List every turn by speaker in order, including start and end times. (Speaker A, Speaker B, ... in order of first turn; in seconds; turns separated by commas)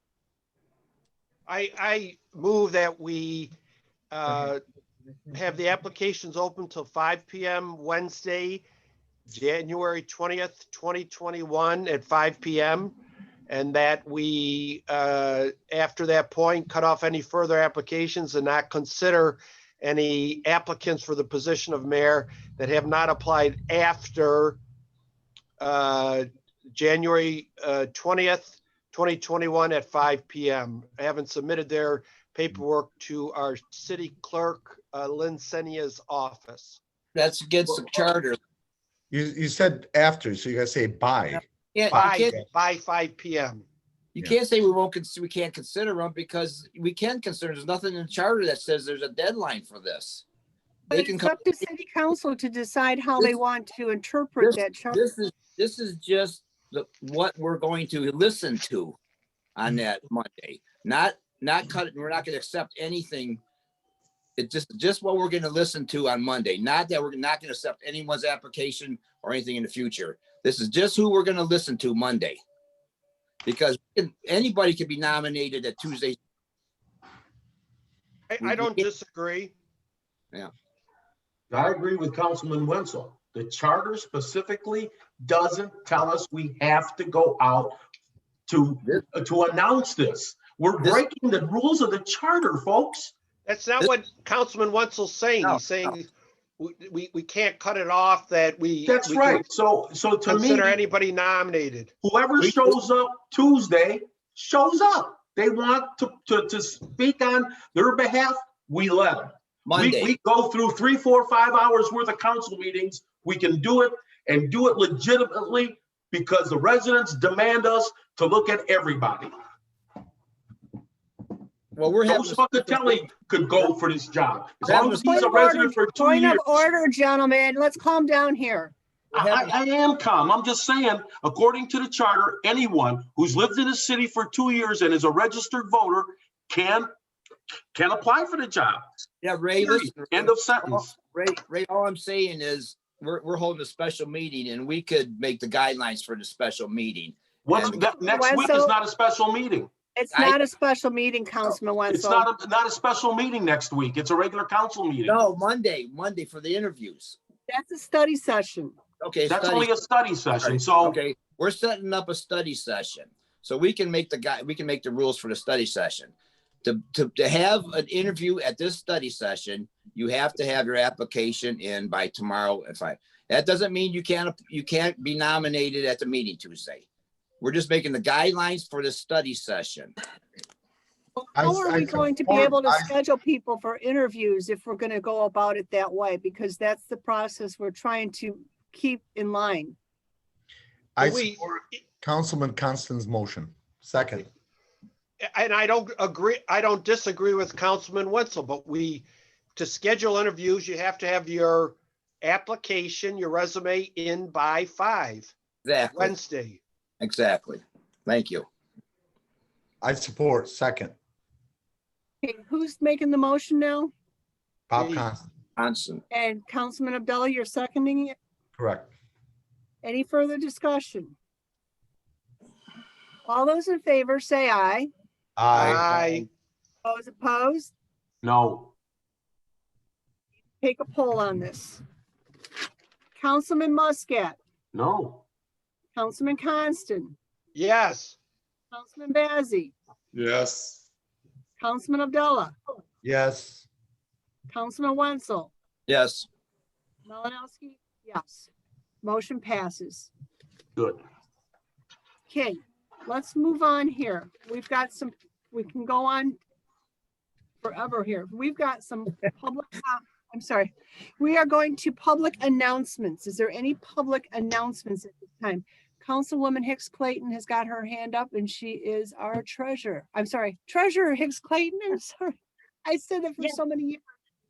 Speaker A: 1.5-3.5, Speaker A: 4.1-4.6, Speaker A: 5.3-8.7, Speaker A: 9.3-13.0, Speaker A: 13.5-24.6, Speaker A: 25.6-36.8, Speaker B: 37.1-38.4, Speaker C: 39.1-41.4, Speaker B: 41.7-42.4, Speaker A: 41.9-43.6, Speaker B: 44.2-50.2, Speaker D: 50.9-55.0, Speaker B: 50.9-51.6, Speaker B: 54.4-59.0, Speaker B: 59.6-63.4, Speaker B: 64.4-72.4, Speaker B: 73.5-76.2, Speaker A: 78.3-79.5, Speaker B: 78.4-78.9, Speaker E: 81.5-87.8, Speaker E: 88.5-93.1, Speaker A: 93.5-96.1, Speaker B: 95.4-95.9, Speaker A: 96.6-99.4, Speaker E: 98.9-100.8, Speaker A: 100.2-101.9, Speaker E: 102.0-119.3, Speaker B: 102.4-102.7, Speaker B: 109.7-110.2, Speaker B: 121.8-123.0, Speaker E: 122.1-126.6, Speaker D: 124.6-128.7, Speaker B: 124.6-125.1, Speaker B: 129.1-129.5, Speaker E: 129.1-136.9, Speaker E: 137.7-138.9, Speaker B: 139.2-147.9, Speaker E: 139.6-140.9, Speaker E: 147.4-149.7, Speaker D: 148.0-148.8, Speaker D: 149.9-152.3, Speaker B: 150.1-150.4, Speaker E: 151.9-155.2, Speaker B: 155.1-157.2, Speaker D: 157.5-158.8, Speaker B: 159.0-159.7, Speaker E: 159.3-161.0, Speaker B: 160.4-166.1, Speaker B: 166.6-176.8, Speaker B: 177.4-179.9, Speaker D: 181.2-189.8, Speaker C: 181.4-182.9, Speaker C: 191.0-194.3, Speaker A: 191.0-191.4, Speaker A: 195.2-205.3, Speaker B: 205.7-206.2, Speaker A: 205.9-206.6, Speaker B: 207.0-208.5, Speaker C: 209.8-210.9, Speaker D: 212.2-213.9, Speaker C: 214.7-215.3, Speaker A: 214.8-215.1, Speaker B: 215.6-216.0, Speaker D: 216.1-218.2, Speaker C: 218.6-218.9, Speaker D: 219.8-221.2, Speaker D: 223.3-224.9, Speaker C: 225.4-226.2, Speaker A: 225.5-226.3, Speaker D: 226.8-227.7, Speaker E: 228.2-228.7, Speaker D: 230.6-231.8, Speaker D: 233.2-234.4, Speaker E: 234.7-235.2, Speaker D: 235.9-237.2, Speaker A: 237.6-238.2, Speaker D: 238.7-239.7, Speaker D: 241.6-242.6, Speaker C: 243.0-243.7, Speaker D: 244.5-245.5, Speaker B: 245.9-246.3, Speaker D: 247.1-248.5, Speaker D: 249.0-250.1, Speaker E: 250.8-251.0, Speaker D: 252.3-256.4, Speaker D: 257.6-274.1